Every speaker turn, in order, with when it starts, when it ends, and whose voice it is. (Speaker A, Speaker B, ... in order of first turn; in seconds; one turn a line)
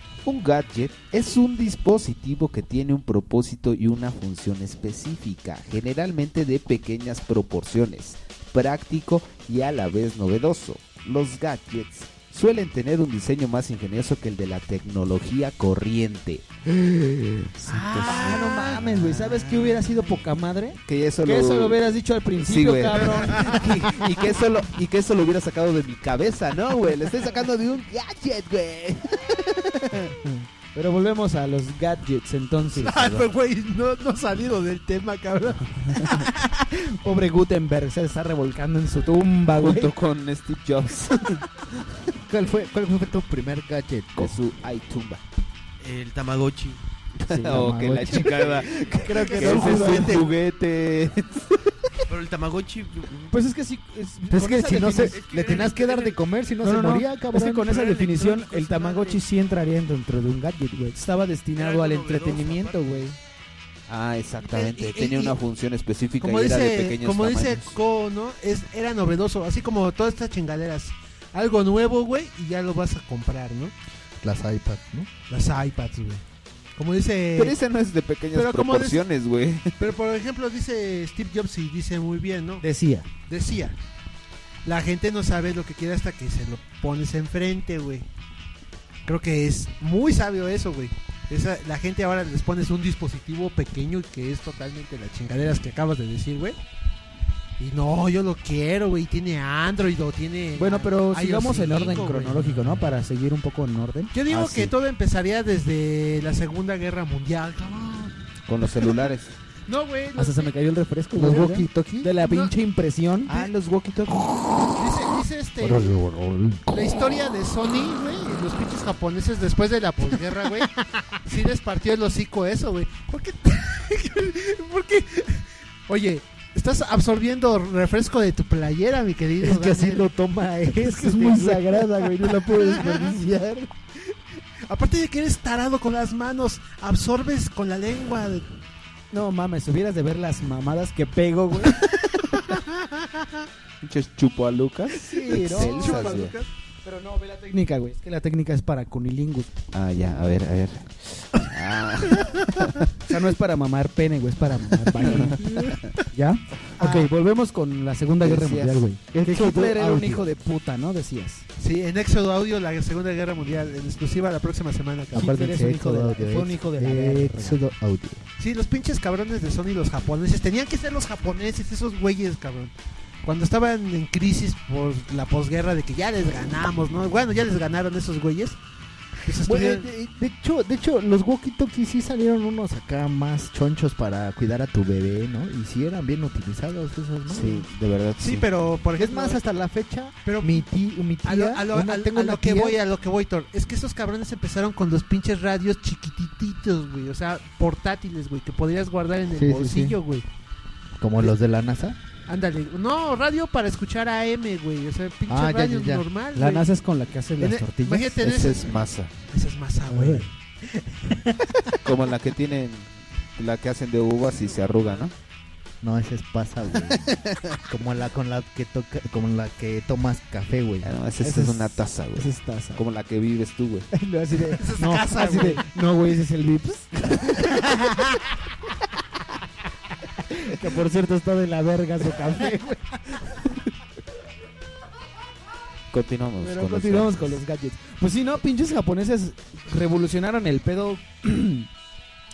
Speaker A: 0.2-18.9
Speaker B: 17.6-23.6
Speaker C: 18.1-18.4
Speaker A: 20.9-21.8
Speaker A: 22.4-30.1
Speaker C: 23.1-23.6
Speaker B: 30.7-33.3
Speaker C: 32.7-36.3
Speaker B: 36.1-39.9
Speaker A: 39.5-41.5
Speaker D: 42.3-44.4
Speaker A: 44.1-45.2
Speaker E: 45.8-46.8
Speaker A: 47.2-51.7
Speaker B: 47.3-47.6
Speaker D: 47.4-48.5
Speaker E: 48.4-48.7
Speaker B: 49.0-50.2
Speaker C: 49.1-50.3
Speaker E: 52.1-53.3
Speaker B: 53.3-55.2
Speaker D: 54.3-57.7
Speaker E: 54.9-56.2
Speaker B: 56.6-63.2
Speaker C: 57.6-59.2
Speaker E: 61.5-63.1
Speaker A: 63.9-67.8
Speaker C: 64.4-65.3
Speaker C: 66.2-73.7
Speaker D: 74.2-75.1
Speaker C: 75.3-76.2
Speaker C: 76.8-77.6
Speaker A: 77.3-79.9
Speaker C: 78.3-79.0
Speaker C: 79.8-82.6
Speaker B: 82.6-83.1
Speaker C: 83.3-83.8
Speaker C: 84.6-88.1
Speaker C: 89.0-96.6
Speaker C: 97.6-102.8
Speaker B: 100.6-104.1
Speaker C: 104.1-108.1
Speaker A: 104.3-104.7
Speaker A: 108.5-109.3
Speaker C: 109.7-110.5
Speaker B: 110.2-113.3
Speaker D: 111.1-112.1
Speaker C: 112.2-112.5
Speaker A: 113.3-114.7
Speaker C: 114.7-116.0
Speaker D: 115.6-116.9
Speaker C: 116.7-120.7
Speaker C: 121.2-130.0
Speaker D: 129.4-131.8
Speaker B: 130.8-133.7
Speaker C: 134.7-138.4
Speaker B: 139.1-141.8
Speaker C: 142.3-143.4
Speaker A: 143.8-146.3
Speaker B: 144.9-146.2
Speaker C: 145.5-146.5
Speaker B: 146.8-149.5
Speaker A: 149.7-152.8
Speaker B: 153.1-155.5
Speaker C: 155.4-155.8
Speaker B: 156.1-161.4
Speaker A: 158.2-158.8
Speaker D: 159.1-160.2
Speaker C: 161.6-165.4
Speaker D: 165.1-168.2
Speaker B: 165.1-167.6
Speaker C: 168.4-172.7
Speaker C: 173.2-178.6
Speaker C: 179.2-179.9
Speaker D: 179.3-187.7
Speaker A: 187.3-188.5
Speaker C: 188.2-189.4
Speaker D: 188.9-192.8
Speaker C: 190.2-190.6
Speaker C: 191.2-200.2
Speaker D: 199.3-200.0
Speaker D: 201.0-202.0
Speaker C: 202.3-206.7
Speaker D: 205.3-206.1
Speaker B: 206.3-208.1
Speaker C: 207.4-208.7
Speaker A: 208.2-209.1
Speaker C: 209.3-210.3
Speaker D: 209.9-210.2
Speaker A: 211.8-215.1
Speaker D: 215.8-217.1
Speaker A: 217.1-217.4
Speaker D: 217.7-220.9
Speaker A: 220.8-223.9
Speaker B: 221.2-222.8
Speaker B: 223.9-227.7
Speaker C: 224.6-225.6
Speaker B: 230.3-233.4
Speaker A: 235.9-237.3
Speaker B: 236.4-241.7